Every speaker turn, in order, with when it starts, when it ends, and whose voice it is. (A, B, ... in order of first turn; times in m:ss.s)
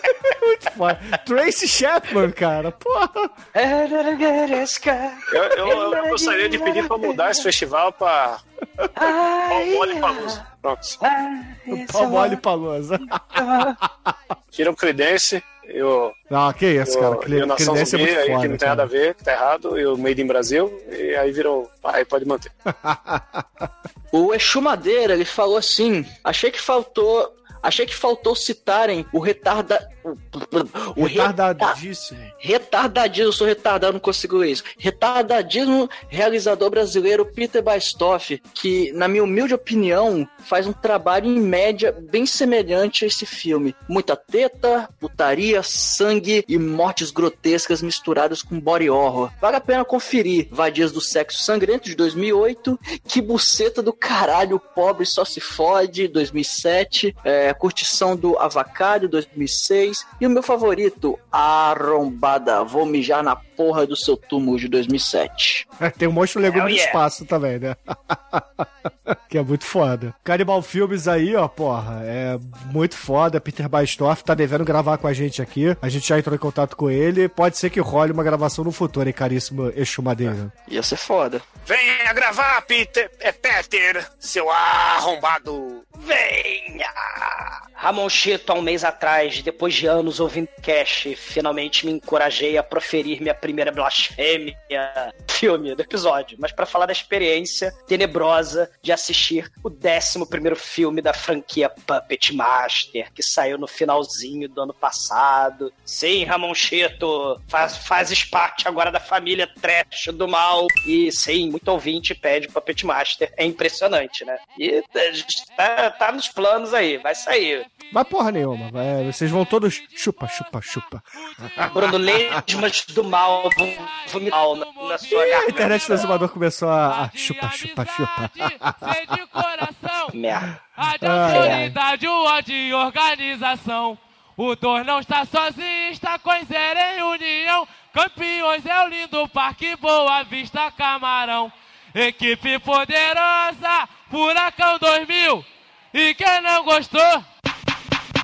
0:00.3-0:03.3 A
0:03.5-0:07.4 B
0:05.3-0:08.4 C
0:09.0-0:10.4 B
0:09.5-0:11.0 C
0:11.0-0:12.4 B
0:11.7-0:14.2 A
0:13.3-0:13.8 B
0:14.5-0:16.2 C
0:16.3-0:18.9 A
0:16.8-0:22.5 C
0:22.7-0:23.4 A
0:24.1-0:31.8 D
0:31.0-0:32.3 A
0:32.4-1:05.6 D
1:05.8-1:20.5 A
1:06.5-1:07.0 B
1:20.7-1:21.4 D
1:21.7-1:25.8 C
1:26.0-1:57.6 B
1:57.9-2:02.4 A
2:00.0-2:00.7 E
2:01.6-2:10.2 E
2:01.7-2:06.0 B
2:05.1-2:09.1 A
2:10.1-2:10.5 B
2:10.8-2:27.2 E
2:11.0-2:11.8 A
2:11.3-2:11.6 B